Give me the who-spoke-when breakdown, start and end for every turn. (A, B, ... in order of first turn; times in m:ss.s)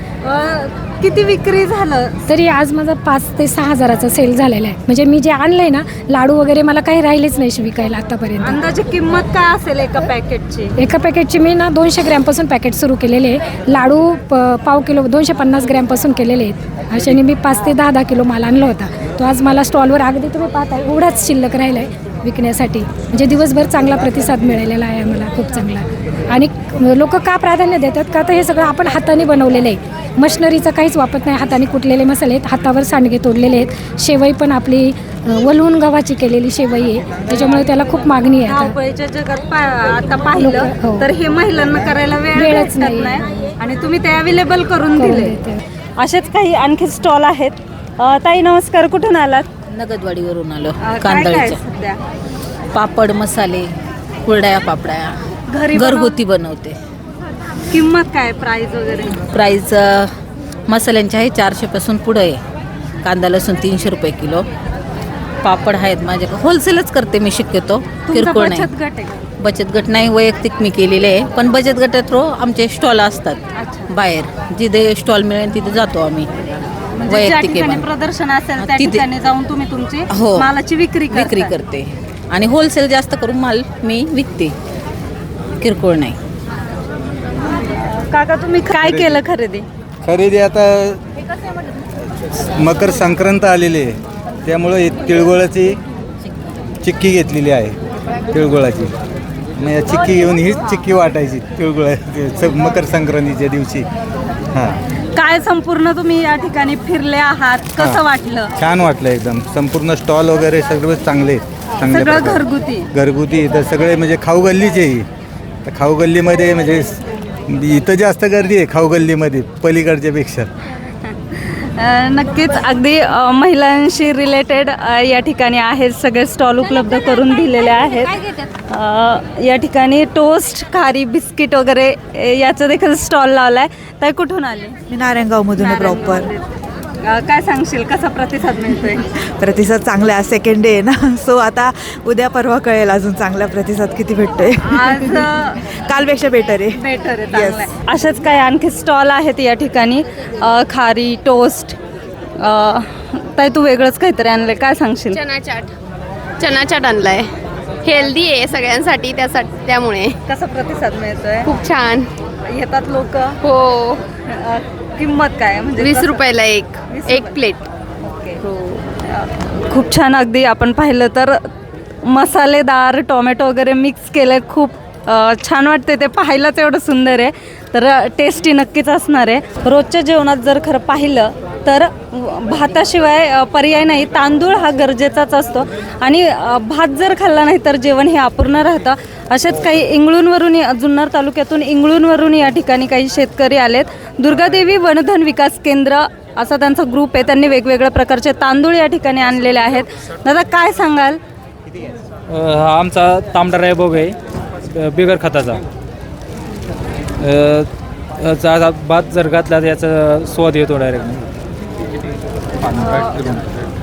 0:00.2-0:02.2 A
0:02.3-0:08.6 B
0:08.4-0:10.7 A
0:10.8-0:38.8 B
0:38.4-0:45.4 A
0:40.4-0:41.1 B
0:42.3-0:43.4 B
0:45.0-0:45.6 B
0:46.0-0:49.5 A
0:49.7-0:51.6 C
0:50.8-0:52.0 A
0:52.7-0:53.7 C
0:54.2-0:55.1 C
0:55.5-0:56.2 A
0:55.7-0:56.8 C
0:57.7-0:59.2 A
0:59.3-1:00.1 C
1:00.7-1:02.4 C
1:03.0-1:04.4 C
1:05.4-1:08.7 C
1:08.0-1:09.2 A
1:09.4-1:16.3 C
1:13.5-1:13.9 A
1:17.0-1:21.5 A
1:17.1-1:17.8 C
1:18.6-1:19.0 C
1:20.1-1:20.5 C
1:21.1-1:24.5 C
1:25.6-1:26.2 C
1:27.6-1:29.7 A
1:28.8-1:29.1 D
1:30.0-1:31.0 D
1:32.4-1:35.8 D
1:36.8-1:37.8 D
1:38.3-1:38.9 D
1:39.6-1:43.8 D
1:45.1-1:48.5 A
1:48.6-1:55.0 D
1:51.8-1:52.9 A
1:55.7-2:00.5 D
2:01.3-2:14.8 A
2:14.9-2:16.3 E
2:15.6-2:16.4 A
2:17.0-2:19.0 A
2:19.3-2:25.3 E
2:24.7-2:25.6 A
2:25.9-2:26.8 E
2:26.8-2:31.8 A
2:27.3-2:27.7 E
2:32.4-2:35.2 A
2:35.1-2:35.7 F
2:36.4-2:37.3 F
2:37.8-2:40.2 F
2:40.3-2:41.5 A
2:41.4-2:42.1 F
2:42.4-2:43.4 A
2:43.4-2:44.0 F
2:44.3-2:46.2 A
2:45.8-2:47.7 F
2:46.9-2:47.4 A
2:48.1-2:48.4 A
2:48.4-2:48.8 F
2:49.0-2:51.5 A
2:52.0-3:21.2 A
3:22.3-3:24.2 G
3:24.7-3:25.6 G
3:27.2-3:31.3 G
3:32.6-3:33.5 G
3:32.8-3:33.3 A